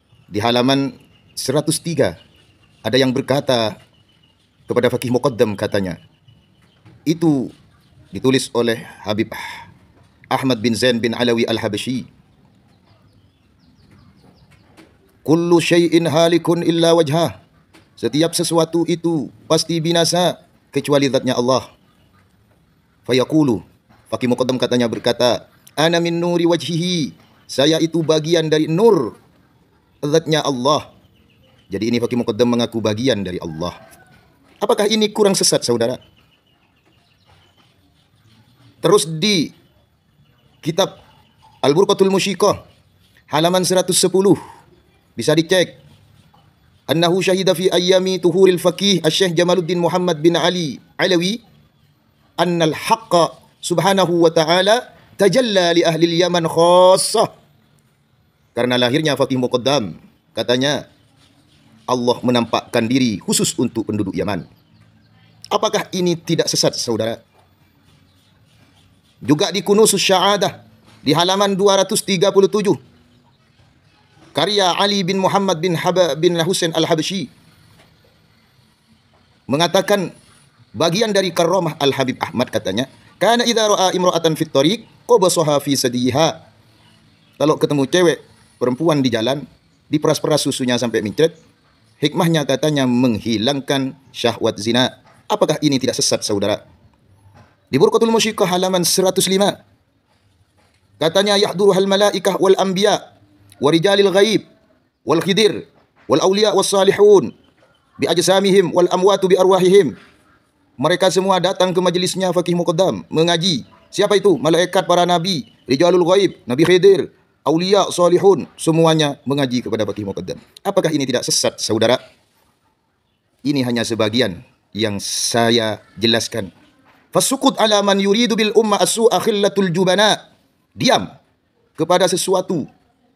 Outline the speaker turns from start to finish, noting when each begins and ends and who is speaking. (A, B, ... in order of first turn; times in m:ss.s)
0:00.3-0:02.2 A
0:02.8-0:03.8 A
0:04.7-0:06.0 A
0:07.1-0:07.5 A
0:08.1-0:09.7 A
0:10.3-0:12.1 A
0:15.2-0:17.3 A
0:18.0-0:21.7 A
0:23.1-0:29.2 A
0:30.0-0:30.8 A
0:31.7-0:33.7 A
0:34.6-0:36.0 A
0:38.8-0:39.5 A
0:40.6-0:40.9 A
0:41.6-0:42.6 A
0:43.3-0:44.4 A
0:45.2-0:45.8 A
0:46.9-0:51.4 A
0:52.4-0:57.3 A
0:58.5-1:00.8 A
1:01.9-1:04.5 A
1:05.5-1:07.2 A
1:09.2-1:12.8 A
1:14.3-1:17.3 A
1:19.5-1:20.1 A
1:20.8-1:26.4 A
1:27.4-1:31.3 A
1:32.0-1:36.6 A
1:37.7-1:39.6 A
1:41.0-1:43.0 A
1:43.6-1:44.4 A
1:45.0-1:47.3 A
1:48.0-1:49.9 A
1:50.8-2:02.0 A
2:03.4-2:06.5 A
2:07.1-2:10.2 A
2:10.8-2:11.1 A
2:11.8-2:12.7 A